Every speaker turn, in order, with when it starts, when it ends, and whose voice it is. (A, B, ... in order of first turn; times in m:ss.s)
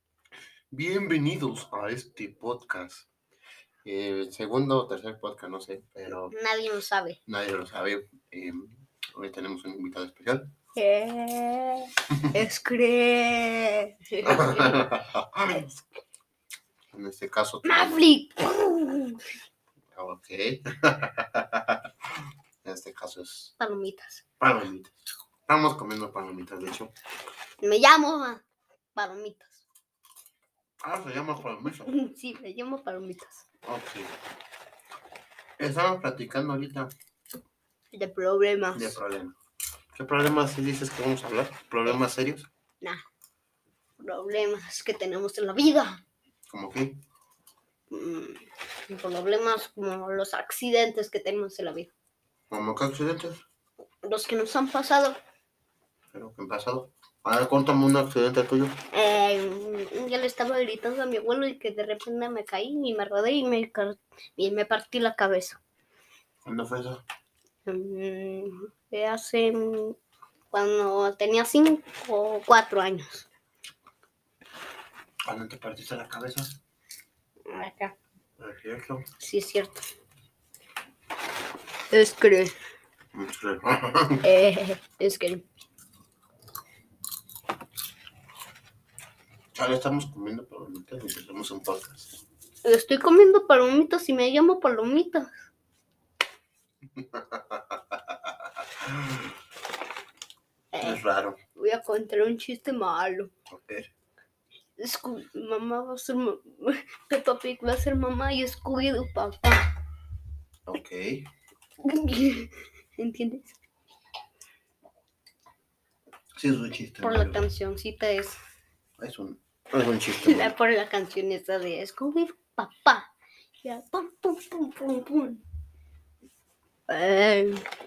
0:00.7-0:03.1 A
0:03.8-0:06.3 A
0:06.3-0:07.2 B
0:07.2-0:10.5 A
0:10.8-0:14.8 B
0:14.2-0:15.8 A
0:16.9-0:18.0 A
0:17.6-0:19.3 B
0:19.9-0:21.8 A
0:22.6-0:23.5 A
0:23.6-0:24.2 B
0:24.4-0:25.0 A
0:25.5-0:26.9 A
0:27.6-0:29.6 B
0:30.8-0:31.9 A
0:31.8-0:33.4 B
0:33.6-0:34.1 A
0:35.6-0:36.9 A
0:37.9-0:39.0 B
0:38.7-0:39.3 A
0:39.9-0:42.5 A
0:44.0-0:46.0 B
0:46.5-0:47.0 A
0:47.9-0:51.9 B
0:52.5-0:53.4 A
0:54.0-0:55.2 B
0:56.1-0:58.8 A
0:58.9-1:05.6 B
1:06.4-1:07.0 A
1:07.6-1:10.0 B
1:10.5-1:13.3 B
1:15.2-1:16.6 A
1:17.4-1:18.0 B
1:18.4-1:19.1 A
1:19.2-1:19.8 B
1:21.9-1:22.5 B
1:23.1-1:24.2 A
1:24.2-1:25.4 B
1:29.5-1:32.1 A
1:32.6-1:35.4 B
1:37.0-1:39.3 A
1:40.7-1:41.0 B
1:40.8-1:41.4 A
1:41.5-1:43.3 B
1:43.5-1:43.9 A
1:44.8-1:49.7 B
1:50.7-1:51.3 A
1:51.8-1:53.6 B
1:56.4-1:57.5 A
1:57.0-1:58.4 B
1:59.0-2:00.5 A
2:00.2-2:03.1 B
2:03.6-2:05.4 B
2:06.9-2:07.6 B